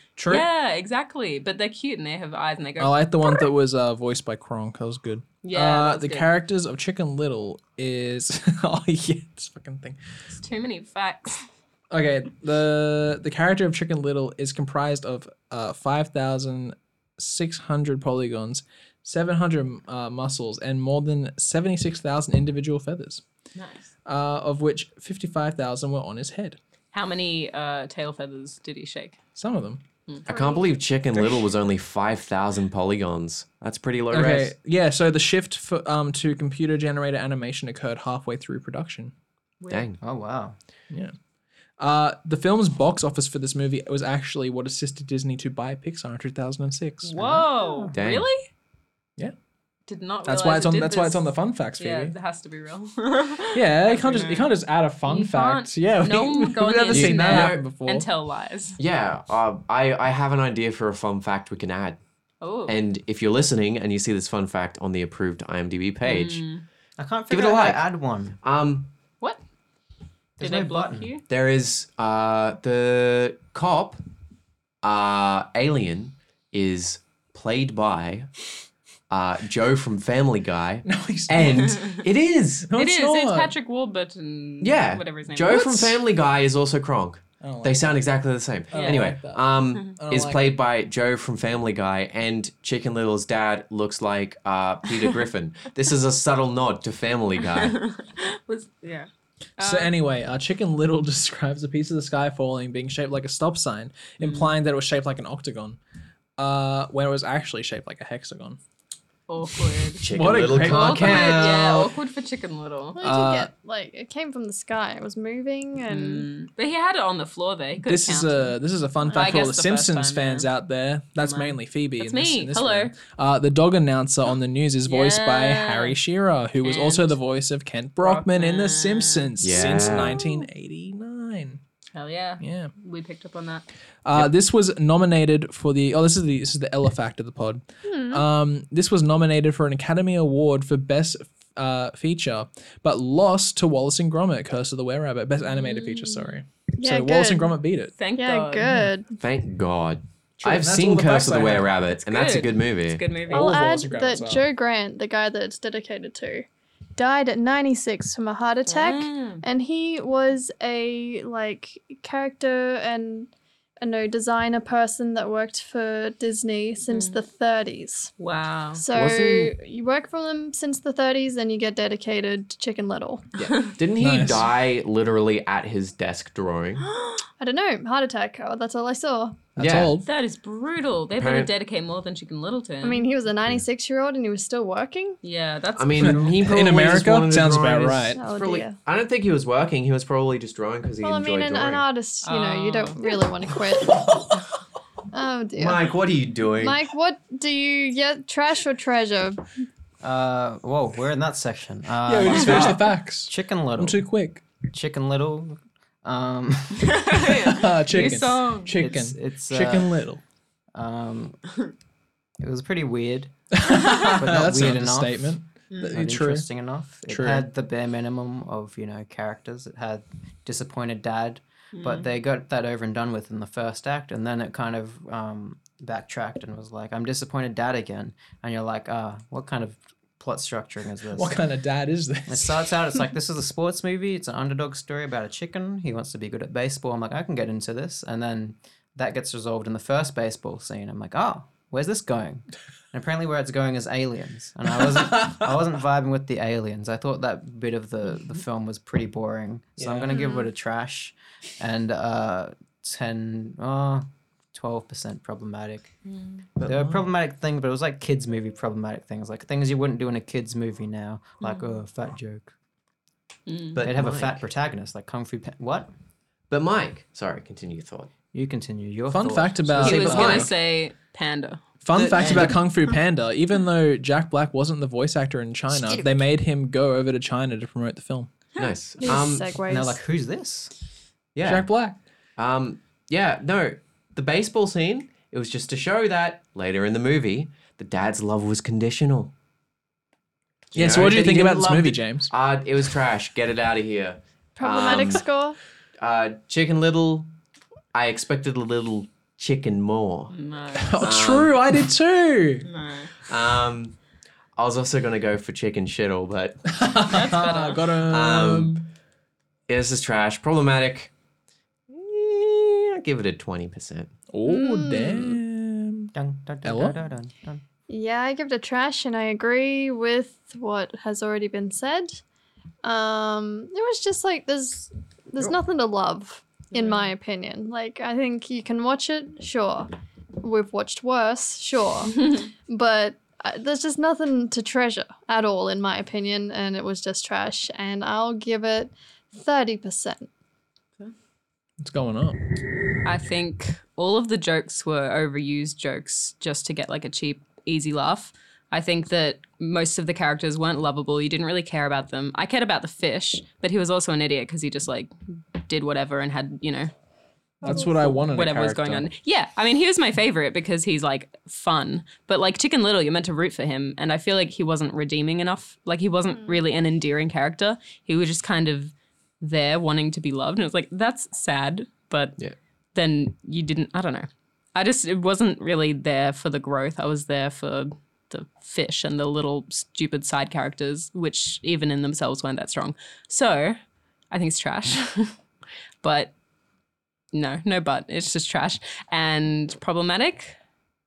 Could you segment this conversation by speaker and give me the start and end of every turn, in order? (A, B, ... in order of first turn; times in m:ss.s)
0:00.2-0:00.4 A
0:00.3-0:03.4 B
0:02.8-0:10.0 A
0:05.4-0:06.3 B
0:10.3-0:11.4 B
0:11.9-0:23.2 A
0:23.5-0:23.9 B
0:24.0-0:26.6 A
0:26.9-0:29.2 B
0:29.4-0:29.8 A
0:30.1-0:30.7 B
0:30.2-0:34.5 C
0:34.1-0:39.1 A
0:39.6-0:39.9 B
0:39.7-0:40.0 C
0:40.0-0:40.6 D
0:40.9-0:41.1 A
0:41.8-0:47.3 A
0:47.0-0:48.5 B
0:47.2-0:47.9 D
0:47.9-0:48.3 C
0:49.9-0:54.5 B
0:50.2-0:52.1 A
0:53.5-0:58.1 A
0:55.0-0:58.8 B
0:56.9-0:57.6 C
0:58.8-1:02.0 C
1:02.4-1:02.8 B
1:02.7-1:06.4 C
1:06.0-1:06.6 B
1:07.0-1:08.4 D
1:07.3-1:07.8 C
1:08.4-1:08.9 C
1:10.4-1:11.1 D
1:10.4-1:11.2 B
1:11.3-1:14.0 C
1:14.8-1:18.3 C
1:19.1-1:22.7 C
1:20.8-1:21.8 A
1:21.4-1:22.0 B
1:22.7-1:23.5 A
1:22.7-1:26.0 B
1:24.6-1:37.8 C
1:27.4-1:28.0 A
1:28.7-1:30.5 A
1:28.7-1:29.0 B
1:37.4-1:39.9 B
1:39.6-1:45.8 A
1:44.2-1:44.5 B
1:46.4-1:48.6 A
1:49.3-1:50.1 B
1:49.6-1:51.9 A
1:50.0-1:51.6 C
1:50.6-1:53.0 B
1:52.9-1:56.3 E
1:53.0-1:53.5 A
1:55.9-1:58.6 B
1:57.8-2:11.6 A
1:59.1-2:00.5 B
2:01.2-2:02.9 B
2:04.9-2:06.0 B
2:06.6-2:07.2 B
2:08.0-2:09.9 B
2:09.4-2:10.2 C
2:11.9-2:13.6 B
2:12.4-2:12.7 A
2:14.0-2:27.9 A
2:17.8-2:18.2 E
2:25.5-2:26.4 B
2:26.8-2:27.6 E
2:28.0-2:28.7 B
2:28.2-2:29.1 E
2:29.2-2:33.0 C
2:30.4-2:31.7 A
2:31.9-2:33.7 B
2:33.3-2:34.4 A
2:33.3-2:48.1 E
2:38.6-2:39.4 B
2:46.9-2:47.2 B
2:48.2-2:48.8 B
2:48.7-2:53.2 E
2:48.9-2:49.5 C
2:53.4-2:56.9 C
2:54.0-2:54.5 A
2:56.8-2:57.2 B
2:57.4-2:59.5 E
2:59.6-2:59.9 C
2:59.6-3:00.1 A
3:00.0-3:03.0 B
3:01.2-3:01.5 C
3:02.8-3:05.2 E
3:05.2-3:06.3 B
3:05.8-3:11.8 C
3:06.0-3:08.2 A
3:08.1-3:08.7 E
3:11.0-3:14.2 E
3:12.2-3:13.0 B
3:15.1-3:15.8 E
3:15.6-3:16.8 C
3:16.6-3:19.5 E
3:20.0-3:24.0 D
3:22.0-3:24.4 A
3:22.3-3:22.8 C
3:24.6-3:27.0 D
3:26.8-3:28.8 B
3:27.1-3:30.2 A
3:28.8-3:30.0 D
3:30.7-3:31.4 D
3:32.4-3:33.3 D
3:33.5-3:36.5 A
3:33.9-3:51.4 D
3:35.7-3:36.0 B
3:37.1-3:37.5 A
3:41.7-3:42.1 B
3:51.1-3:53.0 A
3:52.3-4:15.9 D
4:05.2-4:05.4 A
4:10.1-4:10.4 B
4:16.0-4:16.4 B
4:16.6-4:17.0 C
4:16.6-4:22.5 D
4:21.4-4:21.7 B
4:23.5-4:23.8 B
4:23.7-4:24.4 C
4:23.8-4:25.9 D
4:26.5-4:28.1 C
4:28.3-4:30.4 D
4:29.1-4:30.5 A
4:29.8-4:30.5 C
4:29.8-4:31.6 B
4:31.8-4:38.3 A
4:31.9-4:32.6 C
4:32.1-4:32.5 D
4:38.6-4:39.5 C
4:39.0-4:40.0 E
4:39.7-4:40.7 D
4:41.3-4:41.7 C
4:41.4-4:42.0 A
4:42.4-4:49.3 C
4:50.7-4:55.2 C
4:50.7-4:52.3 A
4:54.6-4:55.6 E
4:56.0-4:57.3 C
4:57.9-5:00.3 C
5:00.3-5:01.2 B
5:00.8-5:02.7 A
5:01.0-5:01.8 C
5:02.6-5:03.1 B
5:03.2-5:04.0 C
5:04.6-5:06.7 C
5:06.7-5:08.8 A
5:07.1-5:07.9 B
5:08.1-5:08.9 C
5:09.7-5:11.1 C
5:11.9-5:14.1 C
5:14.3-5:16.1 A
5:14.4-5:15.4 E
5:16.1-5:17.6 D
5:16.6-5:17.0 A
5:17.9-5:22.2 E
5:22.8-5:40.3 E
5:26.7-5:27.1 B
5:41.8-5:42.4 A
5:43.0-5:56.9 B
5:57.6-5:58.1 E
5:57.6-5:59.1 A
5:57.7-6:12.4 B
6:12.9-6:23.8 B
6:24.3-6:25.4 B
6:26.0-6:26.3 B
6:27.3-6:30.6 B